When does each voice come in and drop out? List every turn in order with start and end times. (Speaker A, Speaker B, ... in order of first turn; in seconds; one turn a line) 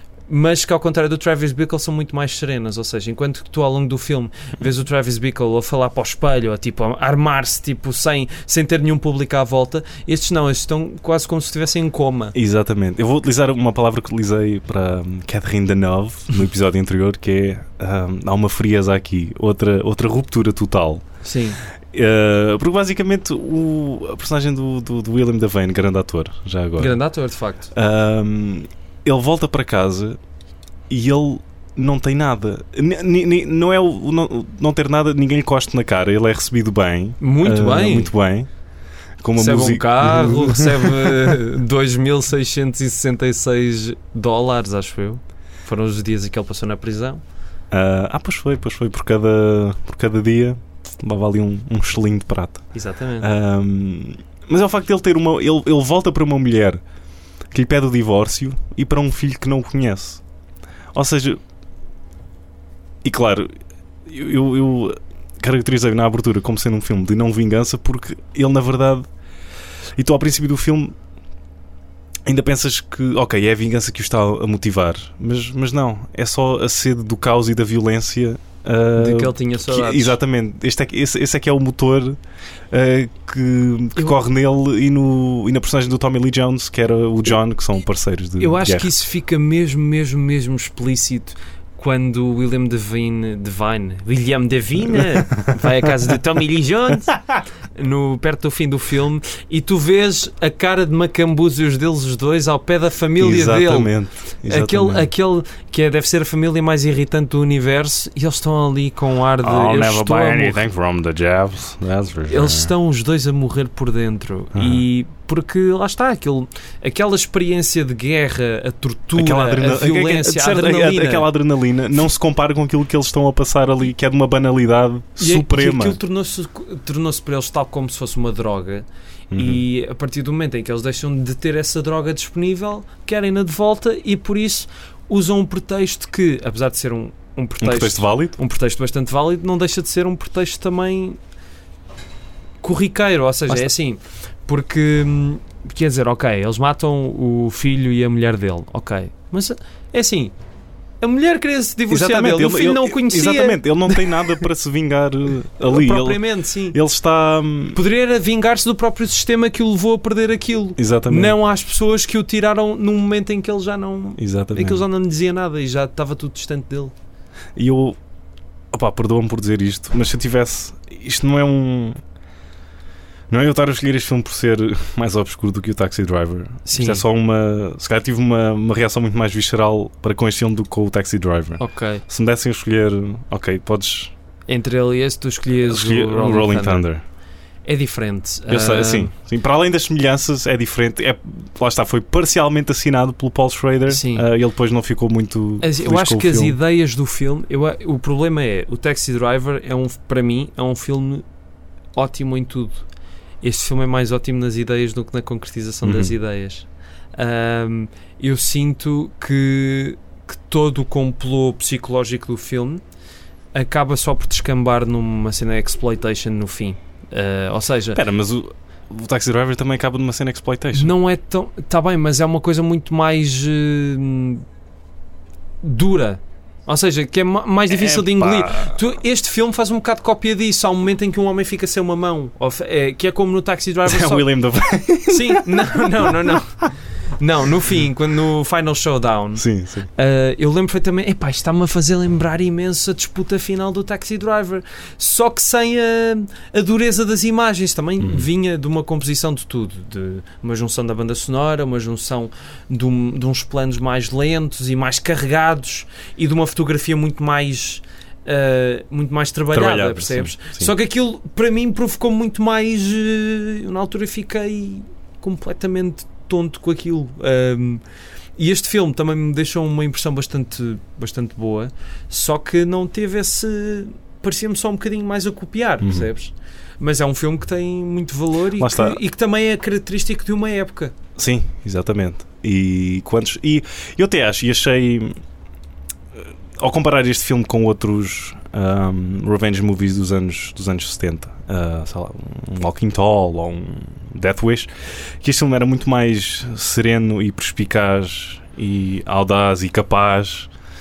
Speaker A: 0.3-12.3
Speaker B: 12.3-21.0
Speaker A: 21.2-21.6
Speaker B: 21.9-27.0
Speaker A: 26.8-27.7
Speaker B: 27.7-30.2
Speaker B: 30.9-38.5
Speaker A: 37.2-38.1
Speaker B: 39.2-41.4
Speaker A: 39.4-47.2
Speaker B: 47.7-56.8
Speaker A: 52.7-53.3
Speaker B: 57.5-60.2
Speaker B: 60.9-61.4
Speaker B: 63.0-63.5
Speaker B: 64.0-69.0
Speaker B: 69.9-71.0
Speaker B: 72.2-82.2
Speaker A: 79.0-80.2
Speaker B: 82.7-88.9
Speaker A: 88.4-103.9
Speaker B: 103.2-105.1
Speaker A: 104.4-110.6
Speaker B: 109.4-112.7
Speaker A: 112.3-121.3
Speaker B: 114.5-114.8
Speaker B: 119.1-126.0
Speaker A: 125.2-141.2
Speaker B: 129.3-129.6
Speaker B: 137.6-138.4
Speaker A: 142.6-150.3
Speaker A: 151.0-154.4
Speaker B: 151.9-157.8
Speaker A: 155.6-156.8
Speaker A: 157.7-166.9
Speaker B: 160.8-161.4
Speaker B: 164.2-164.8
Speaker B: 167.6-168.0
Speaker B: 168.7-172.0
Speaker B: 173.3-184.1
Speaker A: 176.7-177.0
Speaker A: 181.6-182.0
Speaker A: 184.5-186.9
Speaker B: 185.6-187.0
Speaker A: 187.6-189.1
Speaker B: 188.5-196.6
Speaker A: 193.9-194.3
Speaker A: 195.6-201.2
Speaker A: 201.9-202.9
Speaker A: 203.4-212.8
Speaker B: 205.8-206.1
Speaker A: 213.5-218.0
Speaker B: 217.9-220.9
Speaker A: 220.7-224.4
Speaker A: 225.6-234.3
Speaker B: 227.7-228.8
Speaker B: 233.8-236.4
Speaker A: 235.1-267.8
Speaker B: 239.3-239.9
Speaker B: 248.0-248.3
Speaker B: 259.5-260.7
Speaker A: 268.4-280.9
Speaker B: 275.8-276.1
Speaker B: 278.6-279.0
Speaker B: 281.1-285.2
Speaker B: 286.1-300.5